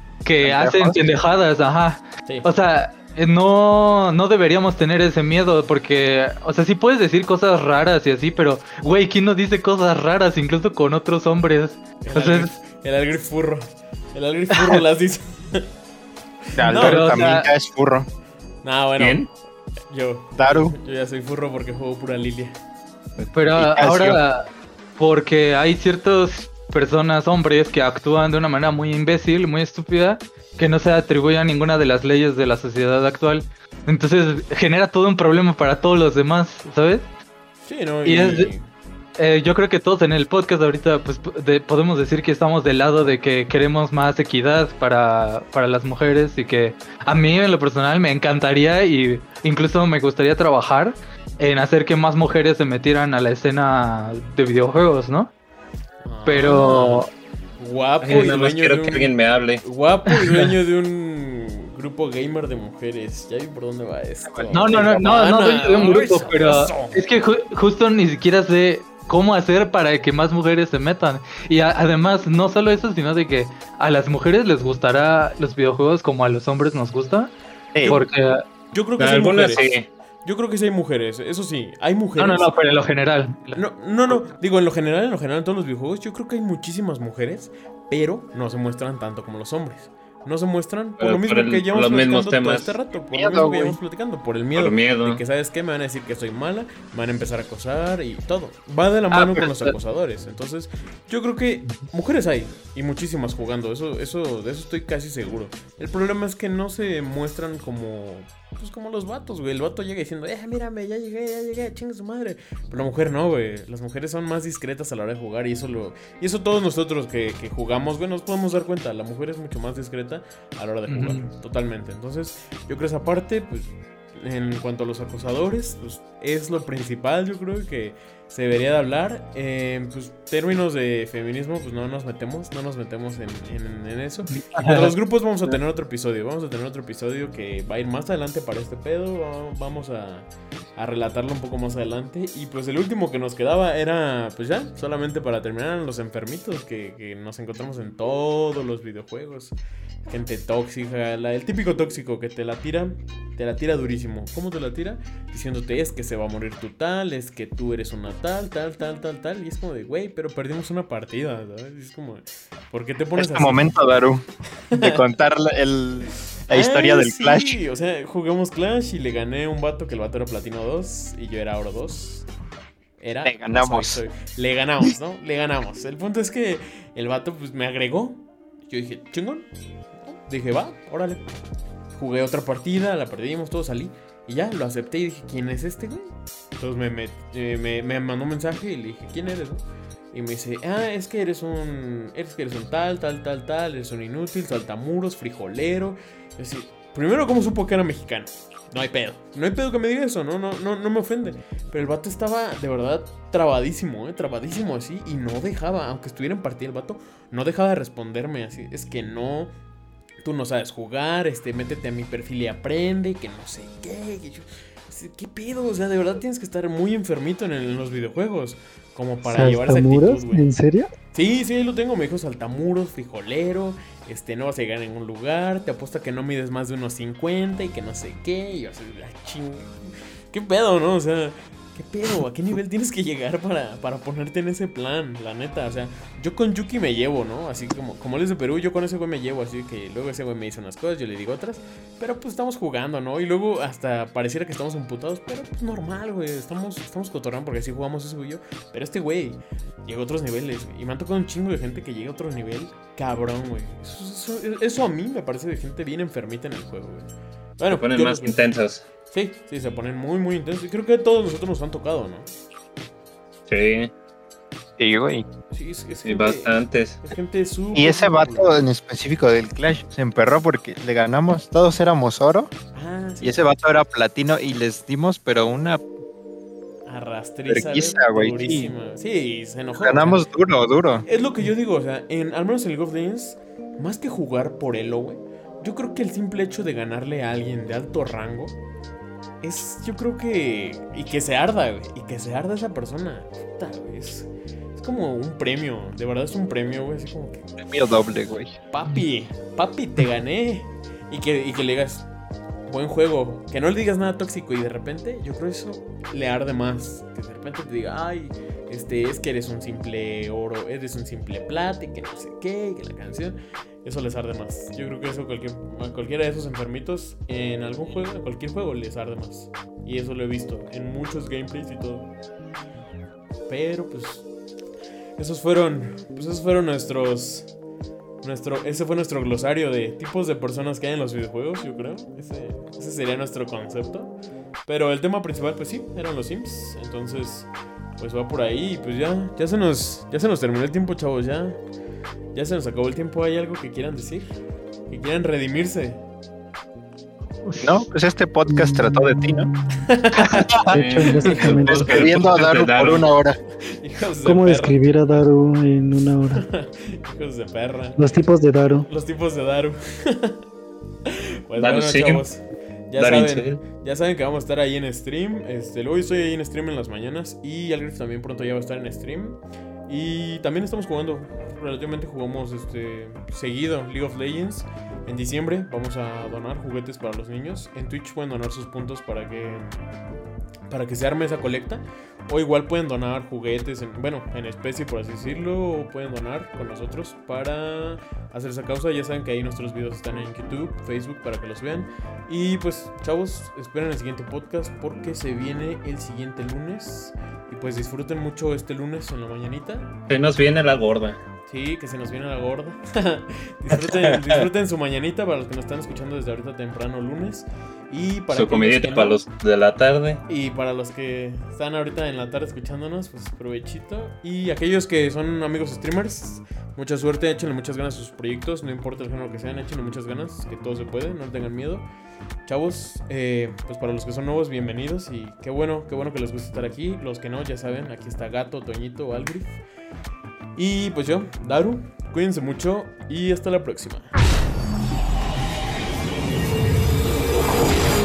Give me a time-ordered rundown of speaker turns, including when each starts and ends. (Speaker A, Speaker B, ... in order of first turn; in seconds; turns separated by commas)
Speaker A: 0.2-12.6, Speaker B: 0.4-1.0, Speaker C: 12.0-15.7, Speaker C: 16.6-17.4, Speaker B: 16.6-18.1, Speaker A: 16.8-17.5, Speaker C: 18.6-19.3, Speaker D: 19.0-19.3, Speaker C: 19.9-22.6, Speaker B: 20.4-20.8, Speaker B: 23.2-24.2, Speaker A: 23.3-37.1, Speaker C: 37.6-38.7, Speaker A: 38.0-38.5, Speaker A: 39.2-55.3, Speaker C: 56.0-57.1, Speaker A: 56.3-57.1, Speaker C: 57.6-67.0, Speaker D: 58.0-59.6, Speaker B: 64.2-65.0, Speaker A: 64.5-77.3, Speaker B: 77.7-78.0, Speaker A: 77.9-78.4, Speaker C: 78.7-79.7, Speaker D: 79.0-79.9, Speaker C: 80.2-82.5, Speaker A: 82.2-83.6, Speaker C: 83.5-163.8, Speaker D: 91.0-92.8, Speaker B: 93.1-93.8, Speaker D: 94.6-95.2, Speaker B: 99.1-99.7, Speaker A: 120.9-121.3, Speaker A: 134.5-134.9, Speaker B: 163.2-167.6, Speaker C: 164.7-165.1, Speaker C: 166.5-172.3, Speaker C: 173.0-179.5, Speaker B: 173.2-174.0, Speaker C: 180.1-181.3, Speaker C: 181.9-209.5, Speaker C: 210.2-220.5, Speaker E: 219.3-220.9, Speaker C: 221.1-229.8, Speaker C: 230.3-258.4, Speaker D: 257.7-258.9, Speaker C: 259.1-262.3, Speaker D: 263.5-263.9, Speaker B: 264.8-265.2, Speaker C: 265.5-268.6, Speaker D: 266.1-267.0, Speaker B: 267.7-272.5, Speaker C: 272.8-273.5, Speaker B: 273.2-275.8, Speaker C: 276.9-280.2, Speaker B: 277.5-278.7, Speaker B: 279.8-281.1, Speaker C: 281.1-288.6, Speaker C: 289.4-297.5, Speaker B: 297.6-298.6, Speaker C: 298.7-302.1, Speaker C: 302.7-322.1, Speaker C: 323.5-324.3, Speaker C: 325.2-327.5, Speaker C: 328.2-334.2, Speaker C: 334.7-341.6, Speaker C: 342.3-344.3, Speaker C: 344.9-346.0, Speaker B: 347.6-349.5, Speaker E: 348.5-352.2, Speaker C: 349.8-350.4, Speaker B: 350.5-353.4, Speaker D: 350.7-353.1, Speaker C: 351.1-352.5, Speaker C: 353.8-354.8, Speaker E: 354.2-356.5, Speaker C: 356.3-358.0, Speaker E: 358.0-358.9, Speaker C: 358.9-360.4, Speaker C: 361.1-379.8, Speaker D: 361.6-362.3, Speaker D: 363.0-363.6, Speaker C: 380.7-400.0, Speaker D: 400.1-401.2, Speaker C: 401.5-409.2, Speaker D: 403.8-404.4, Speaker D: 408.3-410.2, Speaker C: 410.3-421.9, Speaker C: 422.5-429.6, Speaker C: 430.6-434.1